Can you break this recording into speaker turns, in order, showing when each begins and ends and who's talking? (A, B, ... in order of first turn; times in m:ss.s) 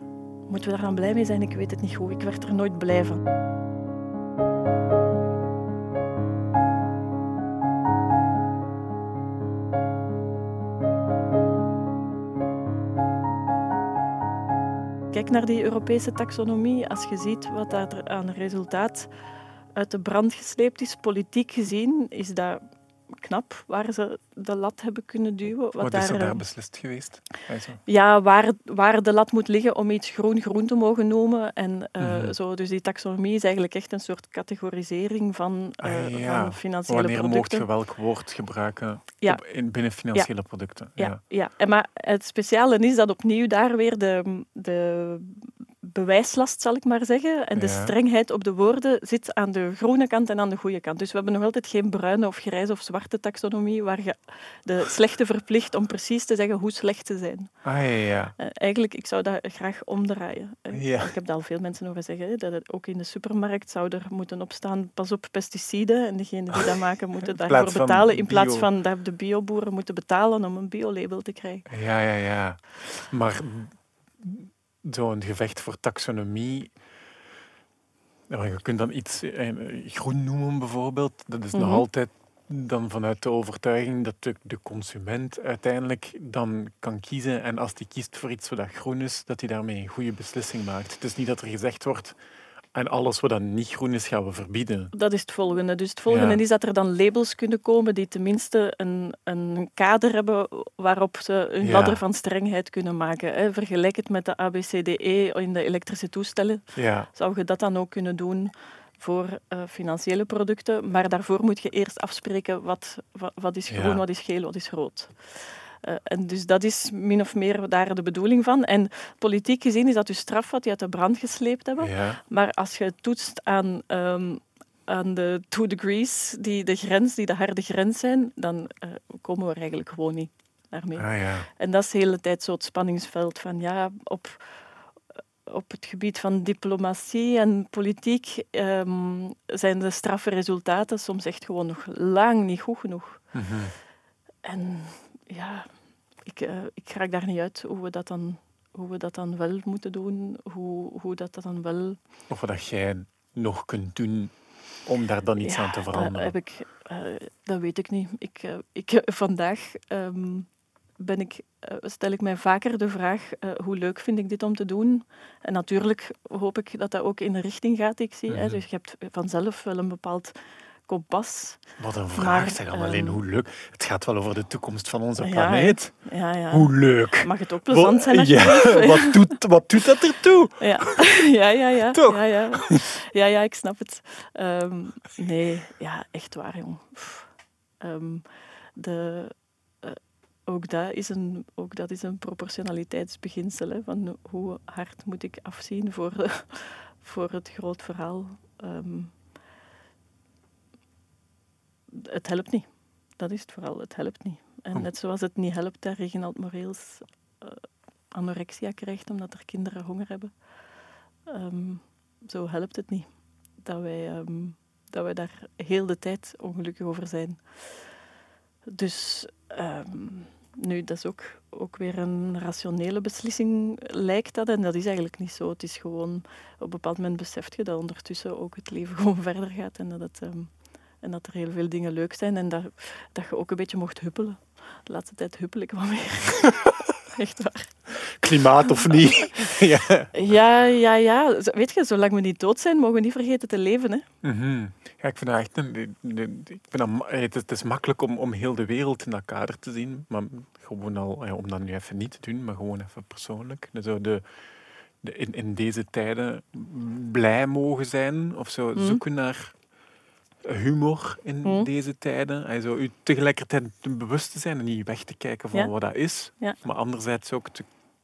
0:00.5-0:03.2 A
0:15.1-0:19.1 A
0:19.8-0:22.6 A
0:23.2-0:26.4 A
0:25.8-0:27.8 B
0:27.9-0:37.7 A
0:32.0-0:32.4 B
0:35.8-0:41.2 B
0:39.2-0:39.5 A
0:40.1-0:57.6 A
0:47.6-0:48.0 B
0:57.6-0:58.4 B
0:58.4-1:11.6 A
1:00.7-1:01.1 B
1:07.4-1:08.7 B
1:11.7-1:16.7 B
1:18.3-1:32.2 B
1:21.5-1:21.8 A
1:32.7-1:34.9 B
1:34.9-2:14.6 A
1:36.1-1:36.4 B
1:41.6-1:42.0 B
1:46.7-1:47.1 B
1:53.7-1:54.0 B
2:01.8-2:02.2 B
2:11.0-2:11.5 B
2:15.4-2:23.2 A
2:23.3-2:23.7 B
2:24.4-2:25.7 A
2:26.2-2:32.0 A
2:32.3-2:36.3 B
2:35.4-2:50.3 A
2:48.3-2:48.6 B
2:50.9-2:53.2 A
2:51.8-3:01.3 B
2:55.2-2:59.3 A
3:00.6-3:07.3 A
3:01.9-3:02.8 B
3:07.8-3:19.2 A
3:21.9-3:30.3 A
3:31.3-3:33.1 A
3:33.6-3:37.4 A
3:38.7-3:56.5 A
3:57.1-3:57.8 A
3:58.0-4:00.3 B
3:58.7-3:59.3 A
4:00.1-4:04.0 A
4:04.2-4:14.2 B
4:15.0-4:19.5 B
4:18.8-4:19.0 A
4:20.4-4:27.6 B
4:21.4-4:21.7 A